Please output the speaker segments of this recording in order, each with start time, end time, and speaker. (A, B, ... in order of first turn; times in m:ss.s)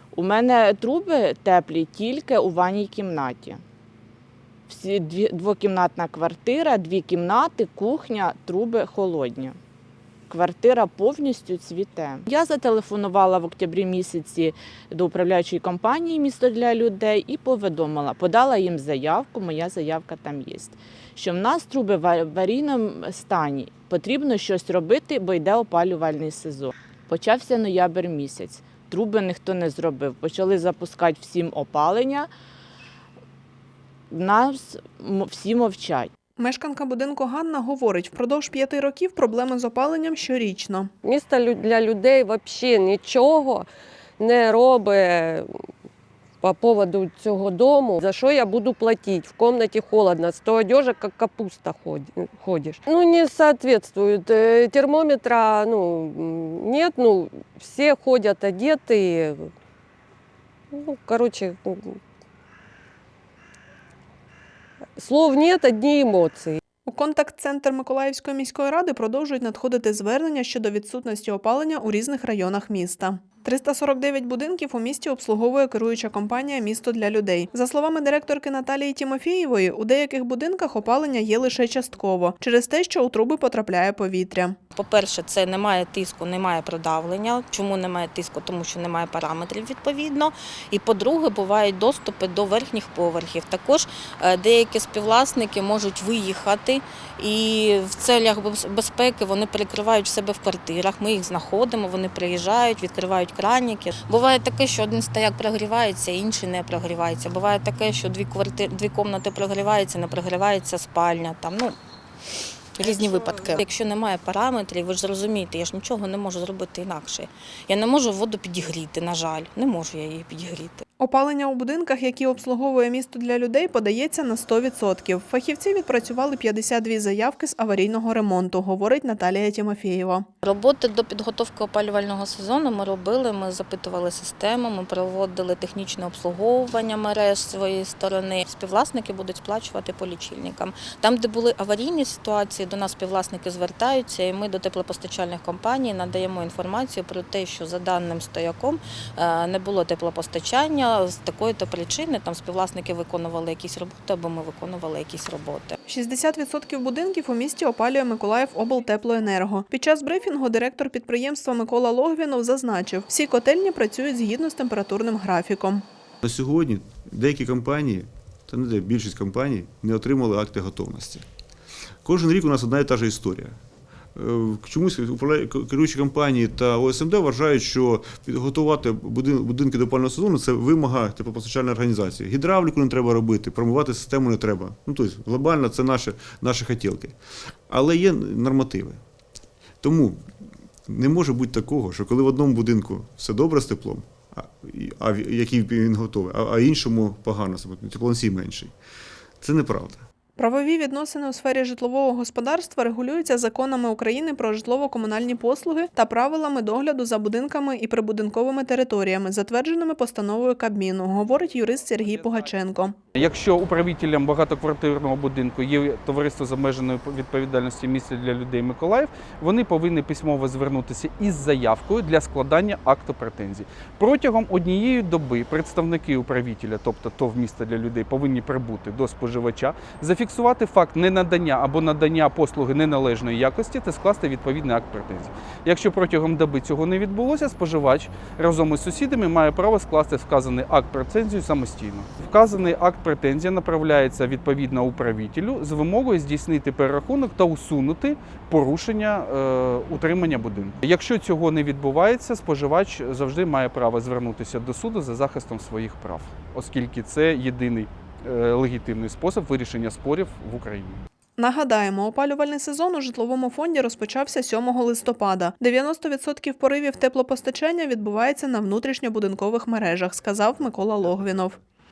0:00.1-0:03.6 A
0:04.7-0:09.6 A
0:10.3-0:32.3 A
0:34.1-0:36.1 A
0:36.4-0:40.9 B
0:41.0-0:43.7 C
0:44.2-0:45.5 C
0:46.4-0:59.5 C
1:00.7-1:02.0 C
1:05.0-1:06.6 C
1:06.9-1:24.6 B
1:24.8-1:51.8 D
1:52.8-2:00.8 D
2:01.0-2:10.3 B
2:10.4-2:35.8 D
2:35.9-2:45.8 B
2:46.2-2:51.2 E
2:52.0-2:53.6 E
2:54.2-3:07.1 E
3:07.7-3:09.0 E
3:09.8-3:10.2 E
3:10.9-3:18.7 E
3:19.4-3:20.0 E
3:20.4-3:33.0 B
3:33.1-4:21.0 F
4:21.4-4:31.6 B